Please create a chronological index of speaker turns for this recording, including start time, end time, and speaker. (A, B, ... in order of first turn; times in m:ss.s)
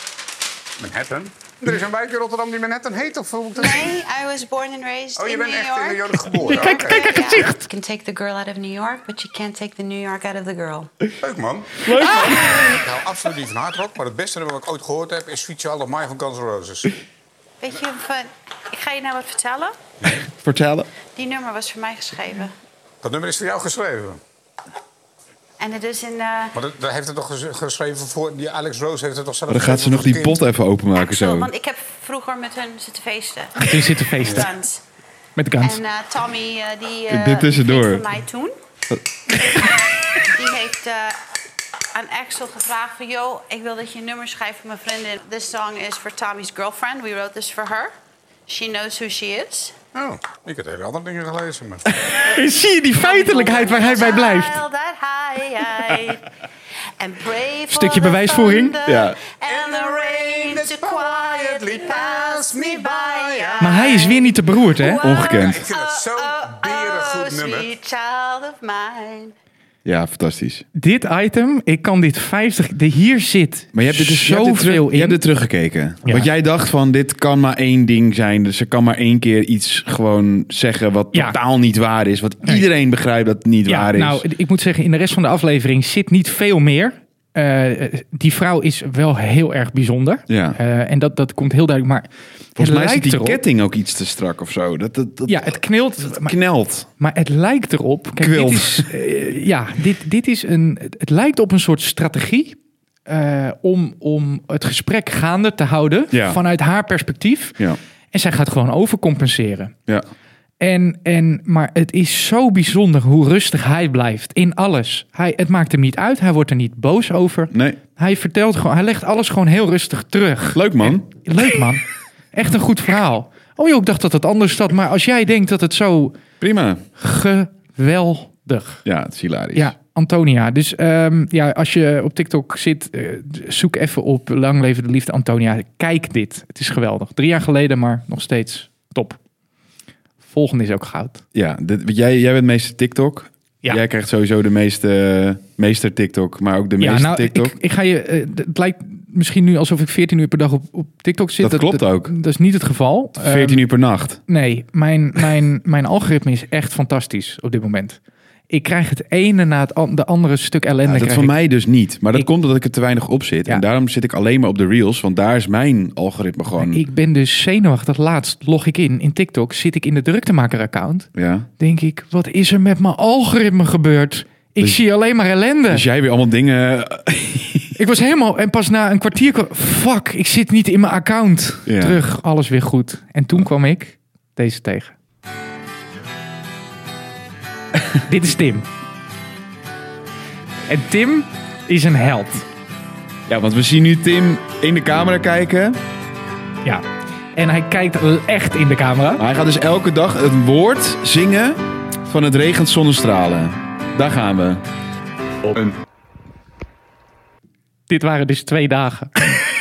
0:00.8-0:04.0 A
0:03.6-0:10.9 B
0:05.2-0:07.4 A
0:06.4-0:07.6 C
0:11.2-0:16.9 A
0:11.8-0:12.4 D
0:17.6-0:19.8 B
0:20.2-0:20.9 D
0:21.1-0:22.5 B
0:23.0-0:24.2 A
0:25.6-0:26.6 B
0:26.5-0:30.4 A
0:29.5-0:31.5 D
0:30.9-0:34.8 B
0:33.6-0:34.5 C
0:35.4-0:35.8 C
0:35.6-0:38.6 B
0:37.1-0:38.0 D
0:40.2-0:41.2 B
0:41.9-0:47.9 B
0:48.5-0:49.8 B
0:49.9-0:51.9 A
0:52.2-0:54.6 C
0:53.0-0:56.3 B
0:57.0-1:09.3 B
0:57.7-0:58.8 C
0:58.8-0:59.2 D
0:59.4-1:04.1 A
1:03.6-1:05.0 C
1:05.0-1:05.6 D
1:05.2-1:07.7 A
1:09.8-1:10.6 D
1:10.8-1:15.2 C
1:13.7-1:24.2 D
1:16.0-1:16.3 C
1:21.1-1:21.4 C
1:23.6-1:33.4 C
1:30.3-1:30.6 D
1:32.6-1:36.9 D
1:35.3-1:36.4 C
1:37.0-1:47.6 C
1:38.2-1:38.9 D
1:46.1-1:46.4 D
1:48.1-1:49.7 C
1:50.6-2:06.2 C
1:57.5-1:57.8 D
2:00.5-2:01.1 D
2:06.4-2:06.8 D
2:07.0-2:08.8 C
2:08.8-2:09.7 D
2:09.5-2:19.2 C
2:20.2-2:21.2 C
2:21.3-2:27.5 D
2:26.8-2:33.7 C
2:31.4-2:32.1 D
2:33.2-2:34.2 D
2:34.3-2:41.3 C
2:40.8-2:46.8 D
2:46.6-2:55.8 C
2:51.1-2:51.5 D
2:55.7-2:57.8 D
2:57.8-3:04.9 C
3:01.6-3:02.0 D
3:08.0-3:08.7 C
3:10.7-3:12.5 C
3:13.3-3:15.8 D
3:16.6-3:19.2 C
3:19.2-3:24.6 D
3:27.9-3:29.5 C